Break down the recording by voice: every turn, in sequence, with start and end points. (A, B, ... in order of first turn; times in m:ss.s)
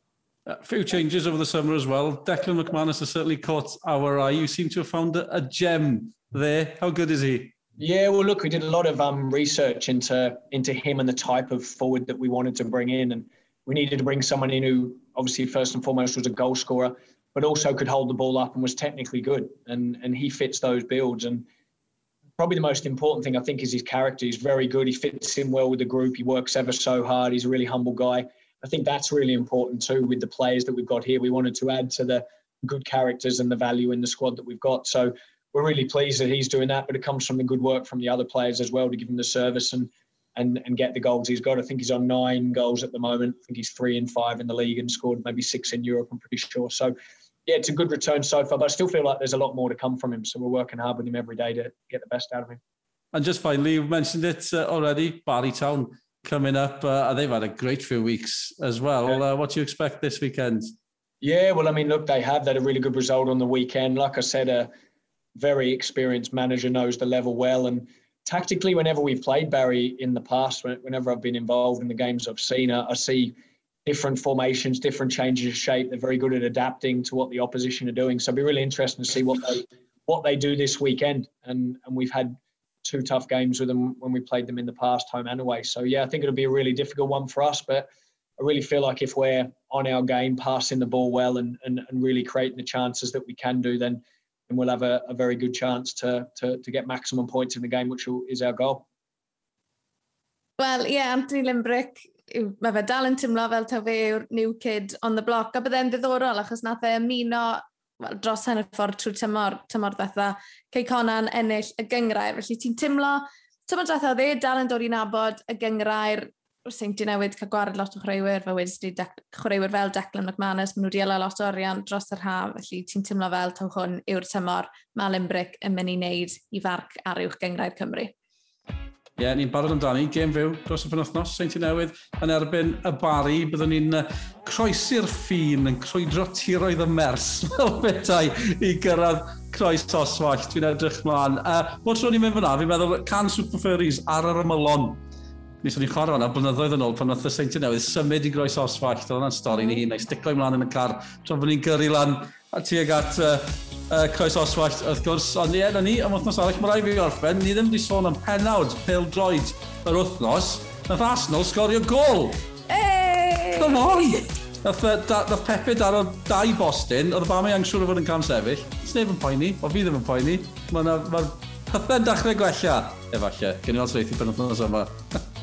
0:00.5-0:07.6 A
0:07.8-0:21.5 B
0:22.4-0:47.0 B
0:47.5-0:52.6 B
0:53.1-1:00.7 A
1:01.2-1:04.7 B
1:05.4-1:13.4 B
1:13.9-1:38.9 B
1:40.6-2:08.1 C
2:09.2-2:25.0 A
2:25.6-2:42.4 A
2:29.5-2:29.8 C
2:42.7-2:44.3 C
2:43.5-2:55.2 A